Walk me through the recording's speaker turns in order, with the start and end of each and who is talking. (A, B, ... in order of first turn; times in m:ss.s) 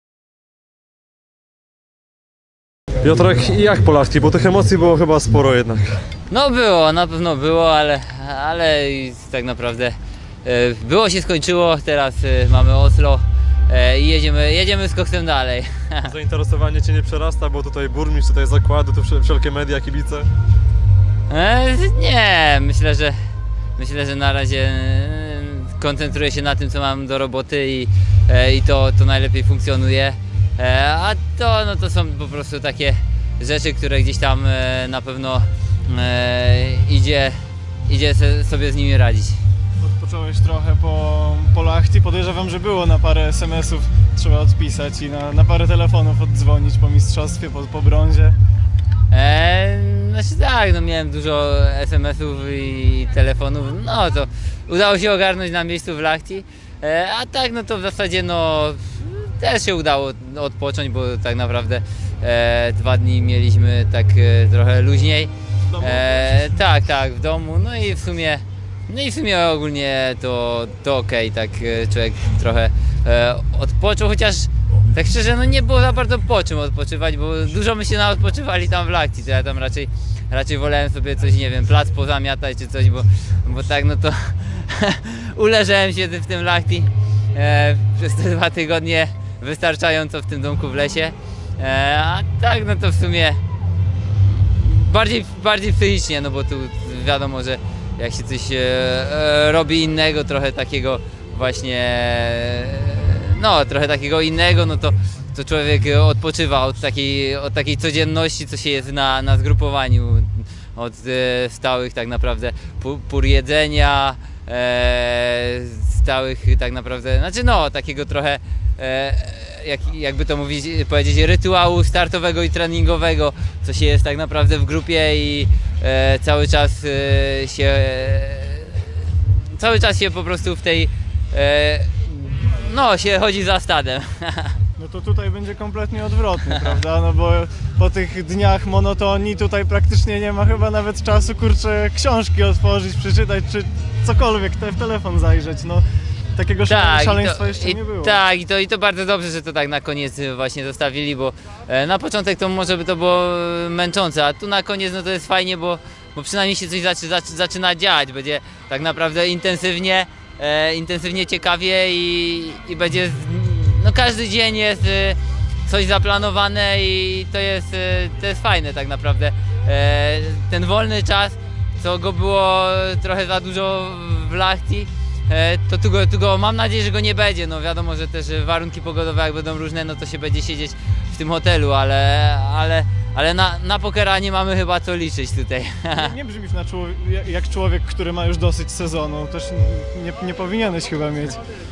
0:03.0-0:05.9 A
0:06.3-0:16.1 B
0:16.1-0:20.3 A
0:21.3-0:23.2 B
0:23.8-0:37.4 B
0:37.9-0:39.4 B
0:39.8-0:48.4 C
0:49.1-1:33.4 B
1:05.7-1:06.6 A
1:34.4-2:08.9 B
2:09.6-2:14.6 B
2:14.8-2:25.8 C
2:26.4-2:28.2 C
2:26.7-3:06.1 B
3:05.9-3:11.4 C